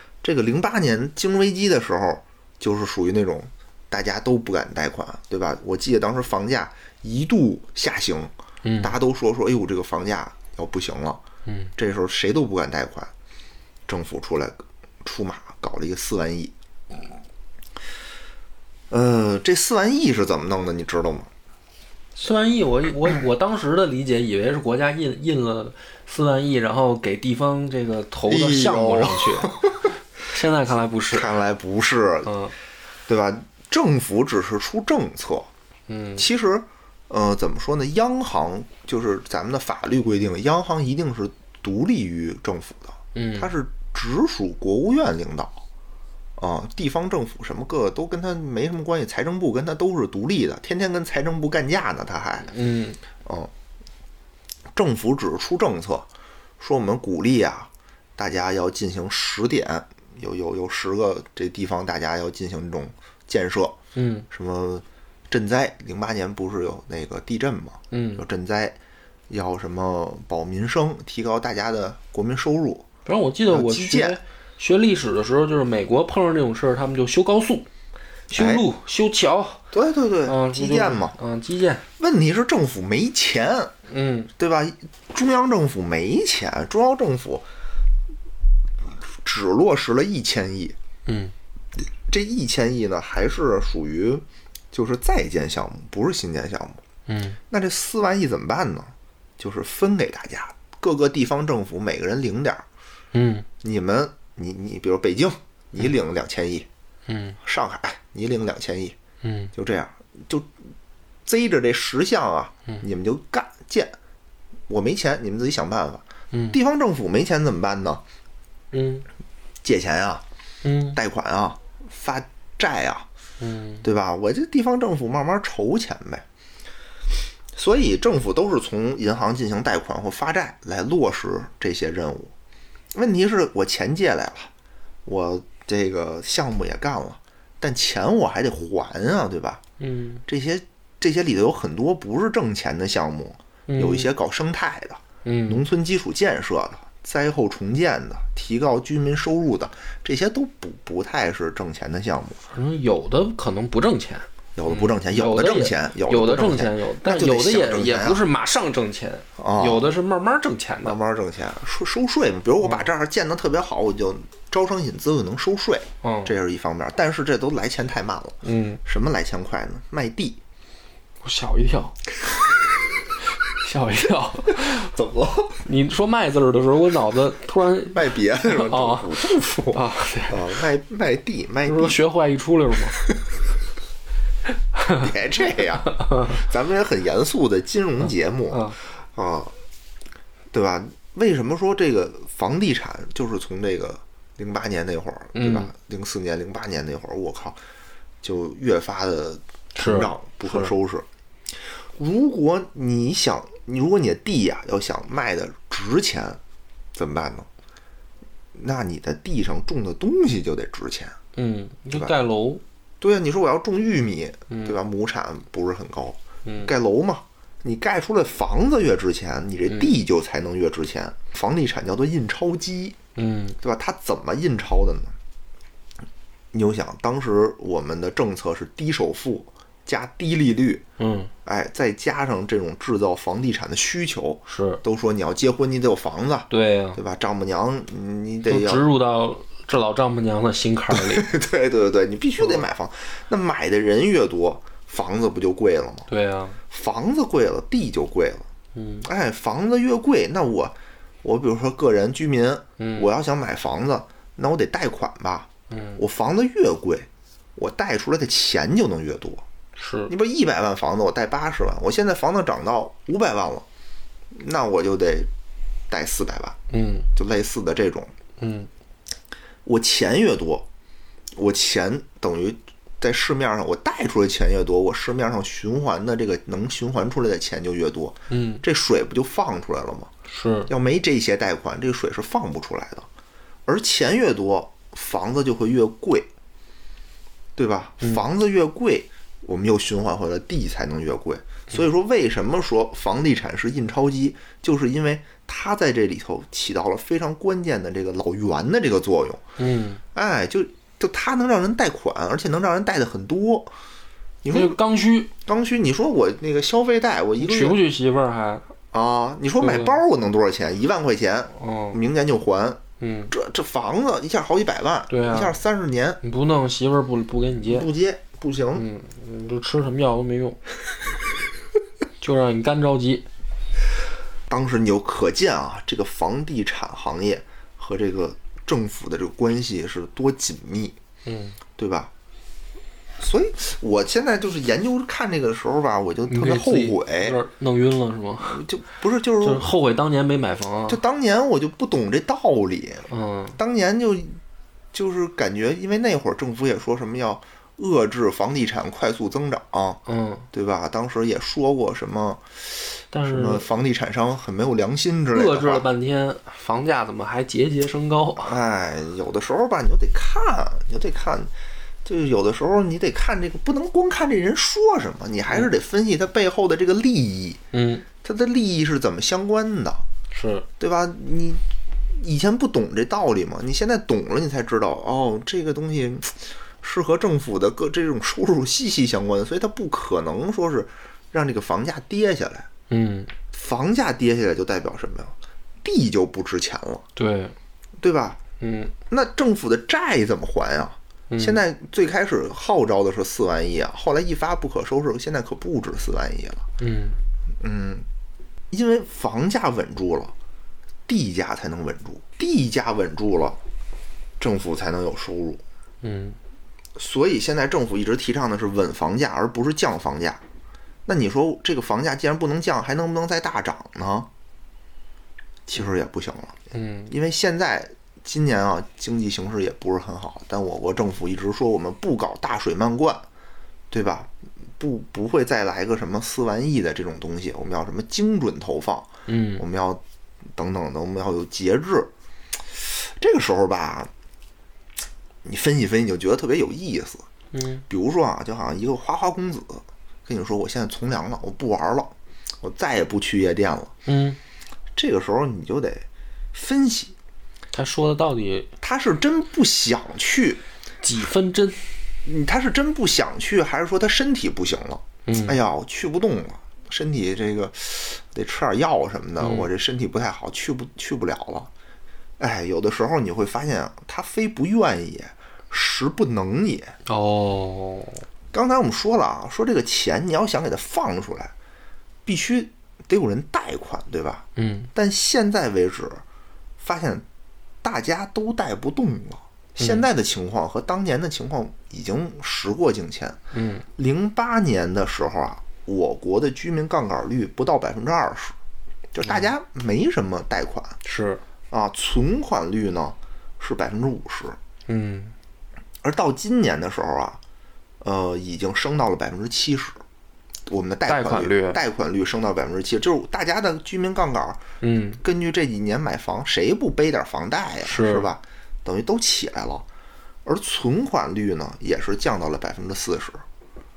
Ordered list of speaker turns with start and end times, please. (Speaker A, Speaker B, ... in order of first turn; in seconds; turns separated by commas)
Speaker A: 0.2-11.2, Speaker B: 8.6-8.9, Speaker B: 11.5-11.7, Speaker A: 11.8-13.1, Speaker A: 13.9-16.5, Speaker A: 18.9-21.3, Speaker B: 22.2-31.3, Speaker A: 28.3-29.9, Speaker A: 31.1-32.3, Speaker B: 32.2-32.5, Speaker A: 33.1-35.5, Speaker B: 35.9-36.2, Speaker A: 36.2-45.6, Speaker B: 43.1-43.5, Speaker A: 46.4-52.5, Speaker B: 52.5-53.0, Speaker A: 53.2-53.5, Speaker A: 54.7-56.1, Speaker A: 56.6-63.8, Speaker B: 64.0-64.3, Speaker A: 64.3-68.8, Speaker B: 67.9-68.2, Speaker A: 69.3-72.9, Speaker B: 73.1-77.7, Speaker A: 73.5-74.2, Speaker A: 78.3-78.7, Speaker B: 78.3-79.6, Speaker A: 79.7-81.2, Speaker B: 80.3-81.8, Speaker A: 82.0-83.7, Speaker B: 83.9-84.3, Speaker A: 84.4-87.5, Speaker A: 89.1-90.8, Speaker B: 91.1-91.3, Speaker A: 92.1-96.8, Speaker B: 97.1-97.4, Speaker A: 97.5-102.7, Speaker B: 103.1-103.5, Speaker A: 103.6-106.7, Speaker B: 107.1-107.4, Speaker A: 107.4-109.0, Speaker B: 109.2-109.5, Speaker A: 109.5-110.5, Speaker A: 111.3-114.0, Speaker A: 114.7-118.0, Speaker B: 116.3-116.6, Speaker B: 118.7-119.1, Speaker A: 119.6-120.2, Speaker B: 120.6-121.0, Speaker A: 120.9-123.1, Speaker B: 123.4-123.8, Speaker A: 123.8-126.2, Speaker A: 127.5-132.3, Speaker A: 132.9-134.5, Speaker A: 135.1-139.6, Speaker B: 139.8-140.2, Speaker A: 140.3-152.4, Speaker B: 143.7-144.1, Speaker B: 145.2-145.6, Speaker B: 152.5-161.0, Speaker A: 154.6-158.2, Speaker A: 159.4-159.9, Speaker A: 160.8-170.4, Speaker B: 166.0-166.3, Speaker B: 168.4-168.8, Speaker B: 171.2-172.0, Speaker B: 173.3-174.9, Speaker A: 174.7-175.6, Speaker B: 175.6-180.5, Speaker A: 177.9-182.0, Speaker B: 181.7-183.0, Speaker A: 183.0-183.4, Speaker A: 184.9-189.5, Speaker B: 186.0-186.3, Speaker B: 188.0-188.8, Speaker A: 190.5-197.6, Speaker B: 195.3-195.7, Speaker A: 198.2-201.1, Speaker B: 199.8-200.7, Speaker A: 201.7-206.4, Speaker A: 206.9-207.5, Speaker A: 208.6-211.2, Speaker B: 211.3-212.6, Speaker A: 213.0-223.0, Speaker B: 214.5-214.8, Speaker B: 216.4-216.7, Speaker B: 219.7-219.9, Speaker B: 223.2-223.6, Speaker A: 223.6-225.2, Speaker A: 226.5-230.8, Speaker B: 231.0-231.3, Speaker A: 231.4-238.8, Speaker B: 234.5-234.8, Speaker B: 236.5-237.0, Speaker B: 238.5-241.3, Speaker A: 240.9-246.1, Speaker B: 246.1-246.6, Speaker A: 246.7-248.5, Speaker B: 248.8-249.1, Speaker A: 249.0-259.4, Speaker B: 252.8-253.1, Speaker B: 255.7-256.0, Speaker B: 259.8-260.1, Speaker A: 260.1-263.7, Speaker A: 264.3-265.3, Speaker A: 265.9-266.6, Speaker B: 266.7-267.1, Speaker A: 267.1-268.1, Speaker B: 268.4-268.7, Speaker A: 269.6-270.7, Speaker A: 271.4-280.1, Speaker B: 278.3-278.6, Speaker B: 280.3-280.7, Speaker A: 280.7-283.1, Speaker A: 283.7-286.3, Speaker A: 287.6-299.4, Speaker B: 299.6-300.0, Speaker A: 300.1-303.7, Speaker A: 304.4-304.8, Speaker B: 304.5-305.3, Speaker A: 305.4-307.8, Speaker B: 307.4-308.6, Speaker A: 308.9-316.2, Speaker B: 309.6-310.0, Speaker B: 311.6-312.0, Speaker B: 313.0-313.3, Speaker B: 315.1-315.6, Speaker B: 316.2-317.9, Speaker A: 317.7-318.9, Speaker B: 318.8-320.6, Speaker B: 322.2-323.3, Speaker A: 324.5-331.0, Speaker B: 331.2-331.6, Speaker A: 331.8-332.1, Speaker A: 333.2-337.4, Speaker B: 336.3-338.6, Speaker A: 338.4-339.6, Speaker B: 339.4-341.0, Speaker A: 340.9-344.4, Speaker B: 343.1-343.6, Speaker A: 344.9-350.0, Speaker B: 350.1-350.5, Speaker A: 350.5-355.9, Speaker B: 353.1-353.6, Speaker B: 355.3-358.5, Speaker A: 358.4-361.5, Speaker A: 362.1-367.6, Speaker B: 367.7-368.1, Speaker A: 368.2-370.1, Speaker B: 370.3-370.7, Speaker A: 370.8-371.6, Speaker A: 372.1-382.7, Speaker B: 382.9-383.3, Speaker A: 383.5-387.1, Speaker B: 387.2-387.6, Speaker A: 388.0-388.4, Speaker B: 388.6-388.9, Speaker A: 389.1-396.7, Speaker B: 391.3-391.6, Speaker B: 396.8-397.2, Speaker A: 397.6-398.1, Speaker A: 398.7-400.3, Speaker A: 401.1-403.6, Speaker A: 404.4-405.6, Speaker B: 406.0-406.4, Speaker A: 407.0-410.4, Speaker A: 411.1-414.3, Speaker A: 415.7-423.3, Speaker B: 416.7-417.1, Speaker A: 423.9-430.0, Speaker B: 429.3-429.6, Speaker A: 430.6-432.1, Speaker A: 432.7-434.1, Speaker A: 435.4-437.3, Speaker B: 437.5-437.8, Speaker A: 437.9-443.9, Speaker B: 444.1-444.4, Speaker A: 444.9-447.1, Speaker B: 447.7-448.7, Speaker A: 448.8-450.6, Speaker B: 451.0-452.0, Speaker A: 452.2-461.7, Speaker B: 455.3-455.6, Speaker B: 459.4-459.7, Speaker A: 462.4-466.9, Speaker B: 467.1-468.2, Speaker A: 468.5-471.5, Speaker A: 472.3-476.2, Speaker B: 474.6-474.9, Speaker A: 476.8-477.2, Speaker A: 477.8-483.4, Speaker B: 479.8-480.1, Speaker B: 483.5-483.9, Speaker A: 484.0-488.6, Speaker A: 489.1-491.0, Speaker B: 489.2-489.5, Speaker B: 491.0-491.4, Speaker A: 491.7-494.6, Speaker B: 494.9-495.4, Speaker A: 496.0-497.4, Speaker A: 498.0-500.0, Speaker A: 500.7-504.6, Speaker B: 501.1-501.8, Speaker B: 504.8-505.2, Speaker A: 505.2-509.9, Speaker B: 507.8-508.3, Speaker A: 510.4-513.4